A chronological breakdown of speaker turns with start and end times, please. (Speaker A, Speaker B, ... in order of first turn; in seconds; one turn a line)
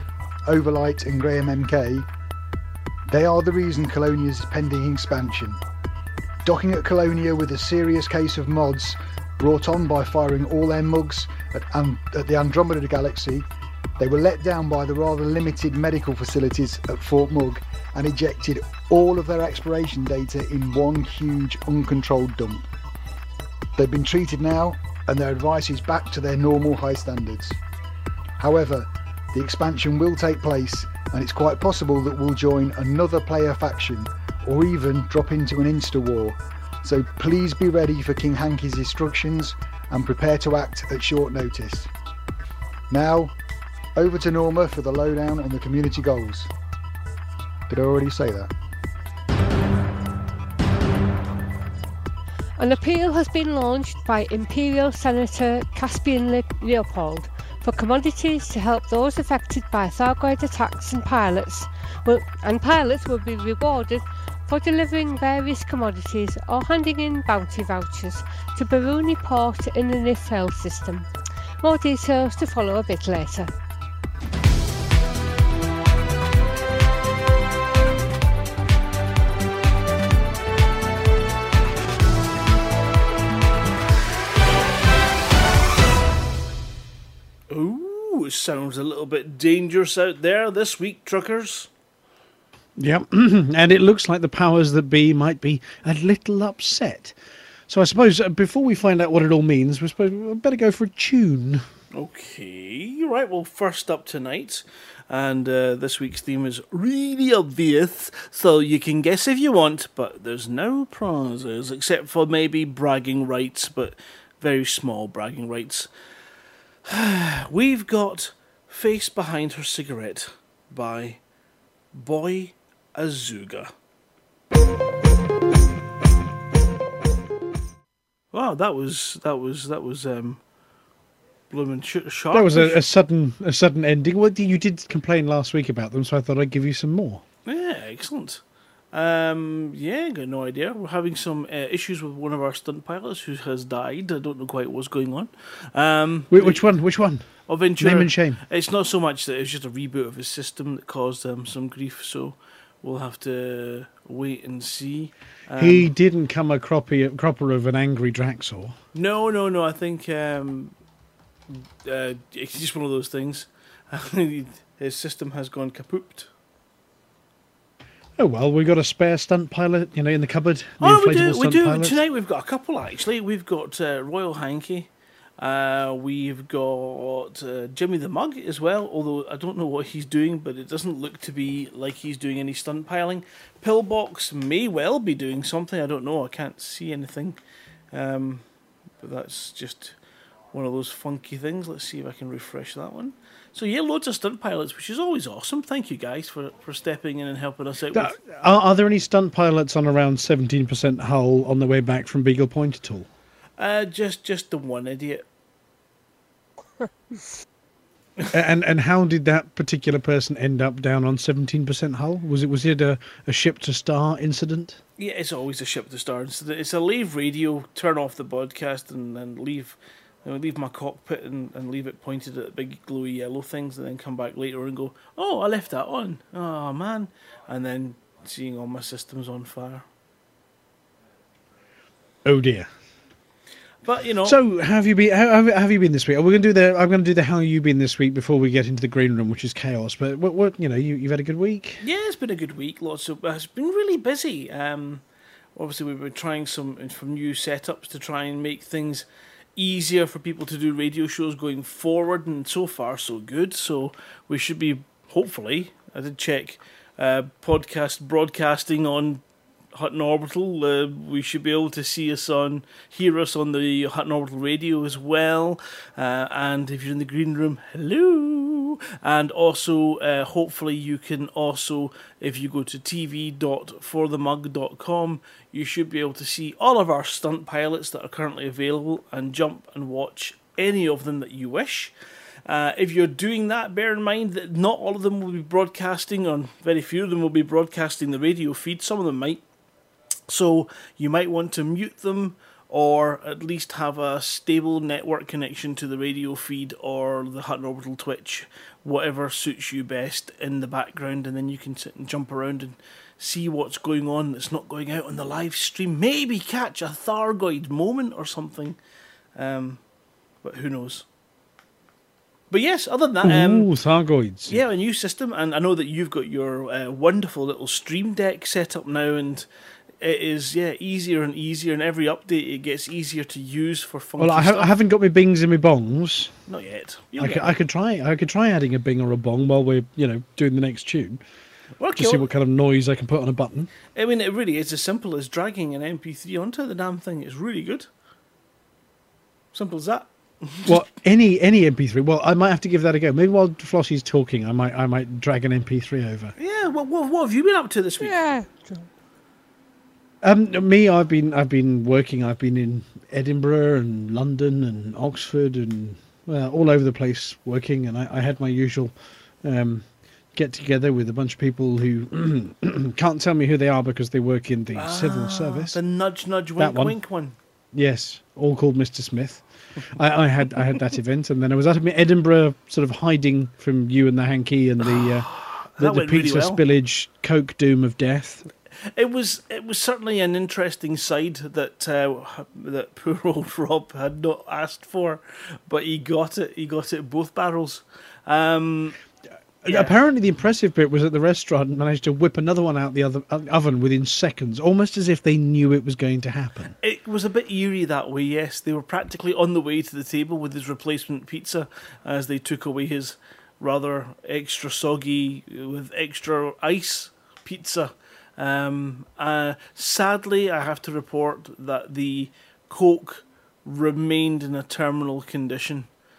Speaker A: 0.5-2.1
Speaker A: 3.1-5.6
Speaker A: 6.5-13.5
Speaker A: 14.0-22.7
Speaker A: 23.8-27.6
Speaker A: 28.4-41.9
Speaker A: 42.9-43.4
Speaker A: 44.0-46.5
Speaker A: 47.7-48.5
Speaker B: 52.6-73.5
Speaker C: 87.5-91.7
Speaker D: 92.8-97.2
Speaker D: 97.7-101.7
Speaker C: 101.9-115.9
Speaker C: 116.9-121.2
Speaker C: 121.9-123.7
Speaker C: 128.3-130.4
Speaker C: 131.5-132.8
Speaker D: 132.3-137.2
Speaker C: 137.5-138.4
Speaker C: 138.9-146.7
Speaker D: 146.3-148.4
Speaker C: 147.5-155.9
Speaker D: 155.6-158.8
Speaker C: 158.9-160.7
Speaker C: 161.8-166.3
Speaker D: 168.2-172.0
Speaker C: 170.8-187.4
Speaker C: 187.9-188.4
Speaker C: 189.0-189.9
Speaker C: 190.5-198.2
Speaker D: 197.9-203.1
Speaker C: 203.6-205.2
Speaker D: 208.3-214.8
Speaker C: 215.0-229.8
Speaker D: 232.2-232.7
Speaker C: 233.8-234.4
Speaker D: 234.2-241.8
Speaker C: 241.8-245.0
Speaker C: 245.6-249.1
Speaker C: 249.6-259.2
Speaker C: 259.7-281.9
Speaker C: 282.5-289.4
Speaker C: 290.3-308.8
Speaker C: 309.4-309.8
Speaker C: 310.4-311.1
Speaker C: 312.5-313.7
Speaker D: 313.2-314.6
Speaker C: 314.5-319.5
Speaker C: 320.0-324.7
Speaker D: 324.2-326.3
Speaker C: 326.5-327.6
Speaker D: 327.2-331.2
Speaker C: 331.8-332.2
Speaker D: 332.0-333.7
Speaker C: 333.9-337.9
Speaker C: 339.5-340.7
Speaker D: 340.7-346.4
Speaker C: 346.4-348.2
Speaker B: 348.0-348.9
Speaker D: 350.2-365.8
Speaker C: 364.8-367.4
Speaker D: 366.6-367.0
Speaker D: 367.7-378.4
Speaker C: 374.8-376.6
Speaker C: 379.0-389.0
Speaker D: 389.6-396.8
Speaker C: 389.7-389.9
Speaker C: 396.8-415.9